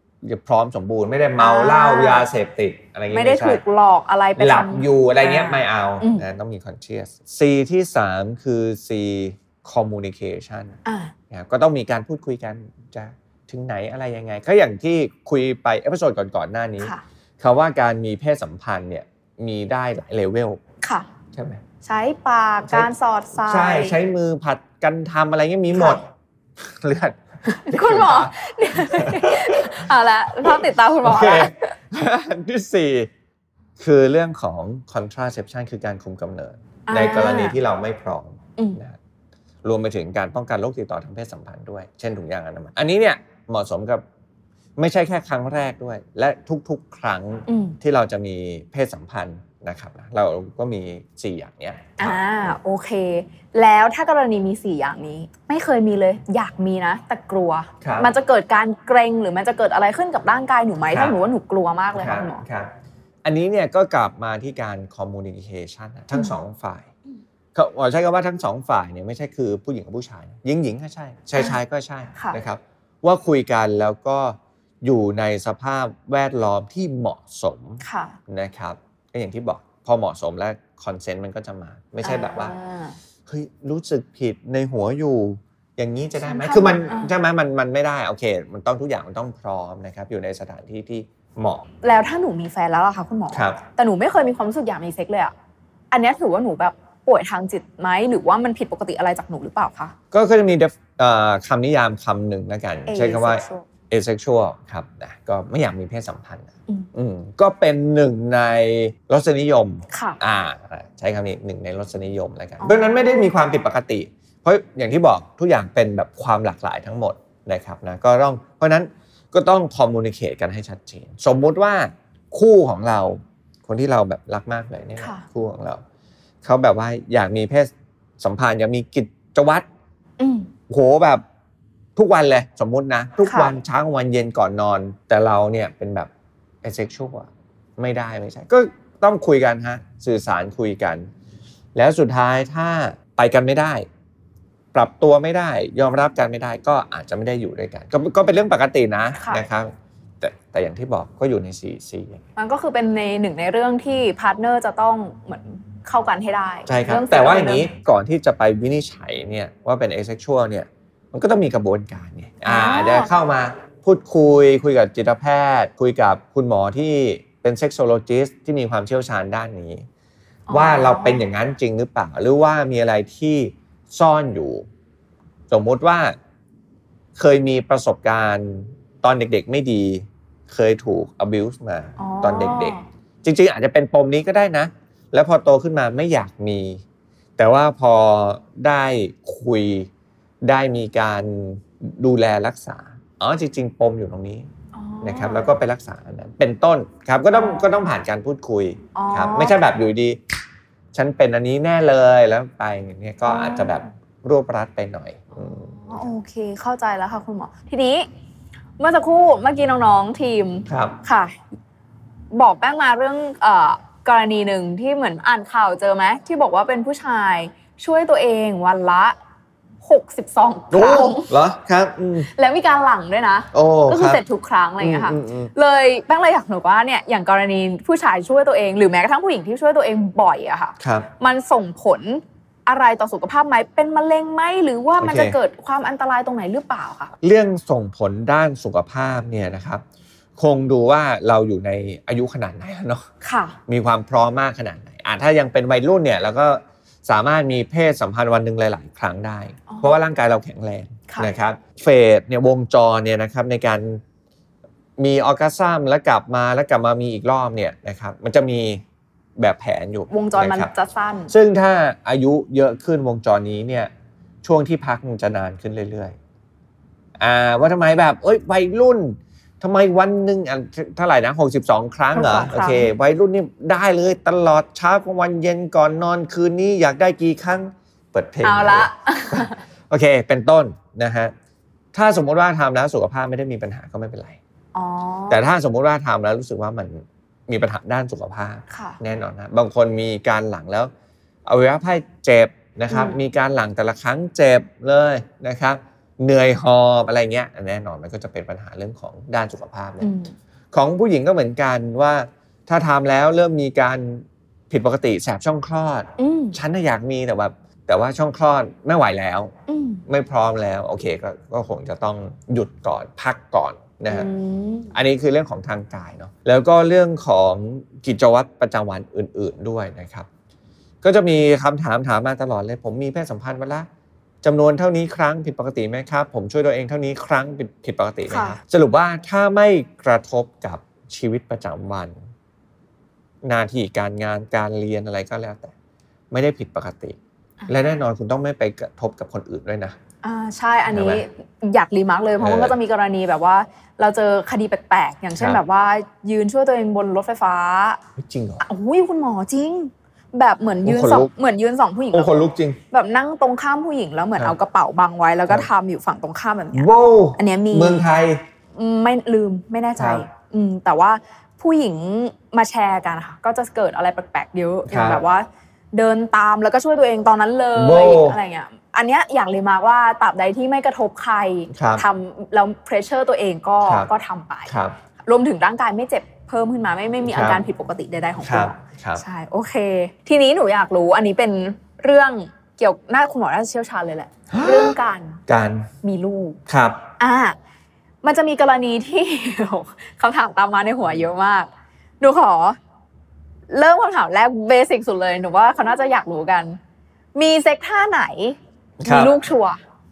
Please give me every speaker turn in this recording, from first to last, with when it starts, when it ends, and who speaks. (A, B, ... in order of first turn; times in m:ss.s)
0:00.2-0:03.6 A
0:01.4-0:02.3 B
0:03.1-0:06.3 B
0:04.4-0:10.8 A
0:10.8-0:11.1 B
0:11.3-0:20.6 A
0:20.8-0:21.1 B
0:21.3-0:21.6 A
0:21.8-0:24.0 B
0:23.4-0:26.1 A
0:25.7-0:26.0 B
0:26.6-0:29.8 A
0:27.5-0:31.8 B
0:30.4-0:33.1 A
0:33.8-0:39.0 A
0:36.9-0:37.6 B
0:39.6-0:44.0 A
0:44.8-0:52.2 A
0:47.5-0:47.8 B
0:52.0-1:02.4 B
0:57.8-0:58.1 A
1:00.9-1:01.2 A
1:01.9-1:02.7 A
1:03.2-1:06.9 A
1:07.6-1:22.5 A
1:17.8-1:18.2 B
1:22.0-1:23.0 B
1:23.3-1:31.6 A
1:26.2-1:27.1 B
1:31.8-1:35.3 B
1:33.3-1:33.6 A
1:35.9-1:39.9 B
1:40.1-2:05.8 A
1:42.9-1:43.7 B
1:49.9-1:50.2 B
1:52.6-1:53.3 B
2:05.0-2:05.2 B
2:06.4-2:09.7 A
2:10.2-2:10.5 B
2:10.7-2:11.2 A
2:12.0-2:16.1 A
2:13.2-2:13.6 B
2:16.6-2:21.1 A
2:21.8-2:23.9 A
2:24.7-2:32.2 A
2:29.2-2:29.4 B
2:32.4-2:37.7 B
2:36.7-2:49.9 A
2:42.4-2:43.1 B
2:50.5-2:51.2 B
2:50.5-2:54.7 A
2:55.5-2:56.2 A
2:57.2-3:06.8 A
3:02.0-3:02.8 B
3:07.4-3:09.9 A
3:10.4-3:14.5 A
3:14.7-3:15.6 B
3:15.0-3:20.2 A
3:17.3-3:17.6 B
3:19.0-3:19.6 B
3:20.9-3:26.0 A
3:23.3-3:23.8 B
3:25.4-3:28.1 B
3:28.8-3:31.4 B
3:30.7-3:31.0 A
3:32.3-3:39.2 B
3:39.8-3:41.3 B
3:40.7-3:42.3 A
3:42.3-3:57.1 B
3:43.5-3:44.2 A
3:44.8-3:45.5 A
3:50.8-3:51.1 A
3:55.0-3:55.4 A
3:57.2-3:59.8 A
4:00.4-4:03.1 A
4:03.2-4:03.6 B
4:03.7-4:14.0 A
4:09.7-4:10.0 B
4:15.0-4:18.8 A
4:19.4-4:20.7 A
4:20.1-4:21.3 B
4:21.3-4:23.9 A
4:24.4-4:26.2 A
4:27.2-4:41.3 A
4:32.1-4:32.9 B
4:38.4-4:39.6 B
4:41.9-4:44.4 A
4:44.8-4:45.4 B
4:45.3-4:50.9 A
4:48.7-4:49.0 B
4:51.5-5:00.1 A
4:52.9-4:53.2 B
5:00.0-5:00.3 B
5:00.7-5:09.5 A
5:06.2-5:06.6 B
5:09.7-5:10.0 B
5:10.1-5:14.3 A
5:14.1-5:14.9 B
5:14.9-5:20.3 A
5:21.0-5:23.9 A
5:24.4-5:32.2 A
5:28.3-5:28.6 B
5:33.4-5:35.7 A
5:36.3-5:40.0 A
5:40.2-5:48.0 B
5:40.9-5:41.2 A
5:42.4-5:42.8 A
5:48.2-5:48.6 A
5:48.6-5:52.3 B
5:50.8-5:51.3 A
5:52.1-5:52.8 A
5:52.9-5:58.1 B
5:56.7-5:58.4 A
5:58.8-6:14.7 B
6:00.0-6:00.2 A
6:04.9-6:05.2 A
6:07.8-6:08.4 A
6:11.7-6:12.0 A
6:13.8-6:14.1 A
6:14.7-6:15.0 A
6:15.3-6:25.4 B
6:17.2-6:17.6 A
6:18.4-6:19.2 A
6:24.5-6:24.9 A
6:25.5-6:25.9 A
6:26.0-6:26.6 B
6:26.7-6:27.0 A
6:27.2-6:27.6 B
6:28.2-6:31.7 B
6:32.2-6:32.8 B
6:33.7-6:36.8 B
6:37.4-6:39.8 B
6:39.0-6:39.4 A